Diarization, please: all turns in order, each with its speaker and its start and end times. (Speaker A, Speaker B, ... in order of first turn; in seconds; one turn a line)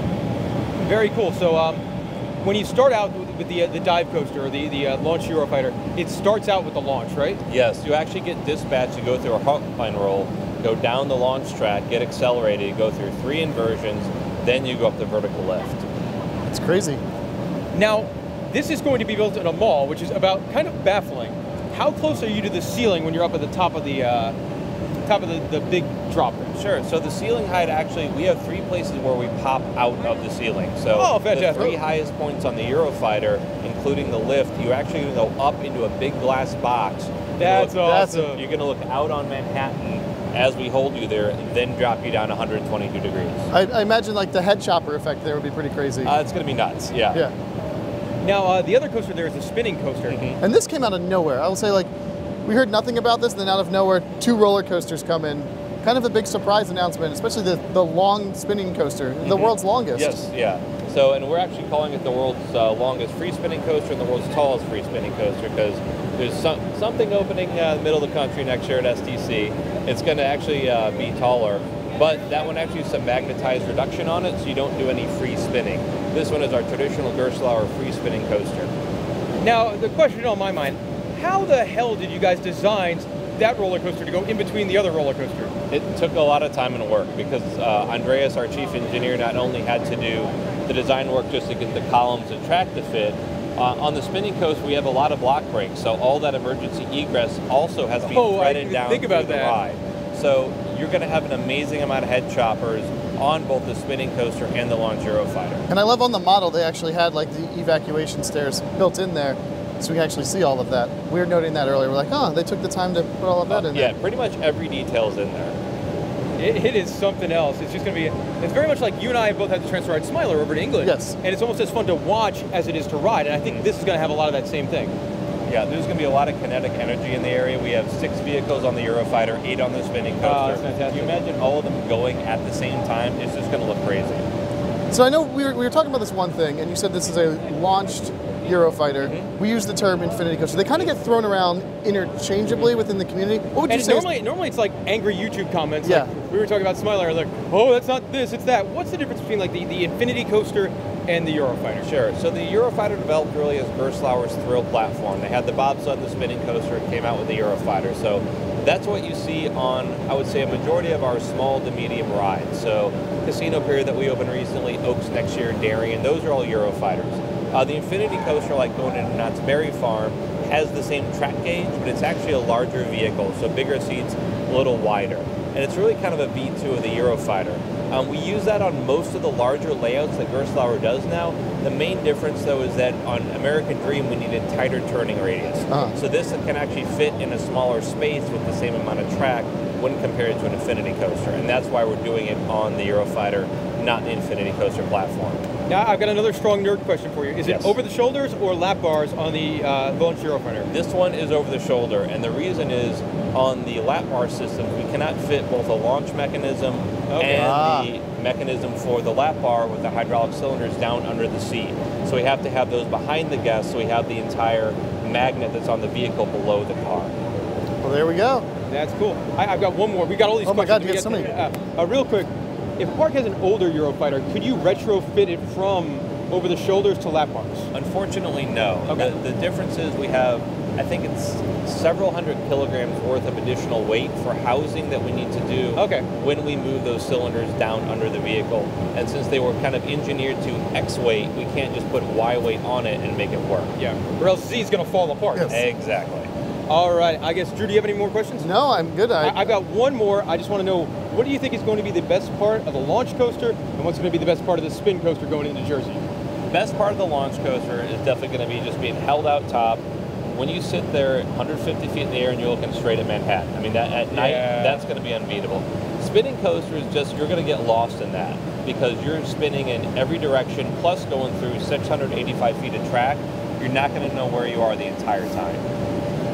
Speaker A: 0.8-1.8
Speaker A: 2.4-7.4
Speaker B: 7.5-15.8
Speaker C: 16.5-17.0
Speaker A: 17.7-24.3
Speaker A: 25.0-26.5
Speaker B: 26.5-43.5
Speaker A: 30.9-31.8
Speaker A: 37.4-38.4
Speaker C: 37.8-38.3
Speaker C: 43.5-46.1
Speaker B: 46.0-47.2
Speaker A: 48.2-50.2
Speaker B: 50.0-50.4
Speaker C: 50.4-51.9
Speaker C: 52.5-60.1
Speaker B: 59.2-78.7
Speaker A: 79.4-85.5
Speaker B: 85.7-105.6
Speaker A: 98.0-99.6
Speaker C: 105.7-113.9
Speaker B: 113.5-115.5
Speaker A: 116.4-124.9
Speaker C: 120.8-121.2
Speaker B: 123.4-123.7
Speaker B: 125.5-134.2
Speaker A: 130.2-131.2
Speaker C: 134.9-144.1
Speaker B: 139.0-139.3
Speaker A: 143.7-151.9
Speaker C: 145.8-146.1
Speaker B: 151.8-195.4
Speaker C: 185.7-185.9
Speaker A: 195.7-200.7
Speaker B: 197.4-197.7
Speaker B: 200.7-217.1
Speaker A: 207.1-207.6
Speaker C: 207.3-207.9
Speaker C: 217.8-218.4
Speaker A: 218.7-227.7
Speaker C: 220.4-221.3
Speaker B: 227.7-243.7
Speaker A: 228.9-229.1
Speaker A: 235.7-236.1
Speaker A: 243.8-245.6
Speaker C: 245.3-245.6
Speaker B: 245.5-246.3
Speaker A: 246.7-248.5
Speaker C: 248.4-249.5
Speaker A: 249.2-256.0
Speaker B: 256.5-275.6
Speaker A: 264.1-264.8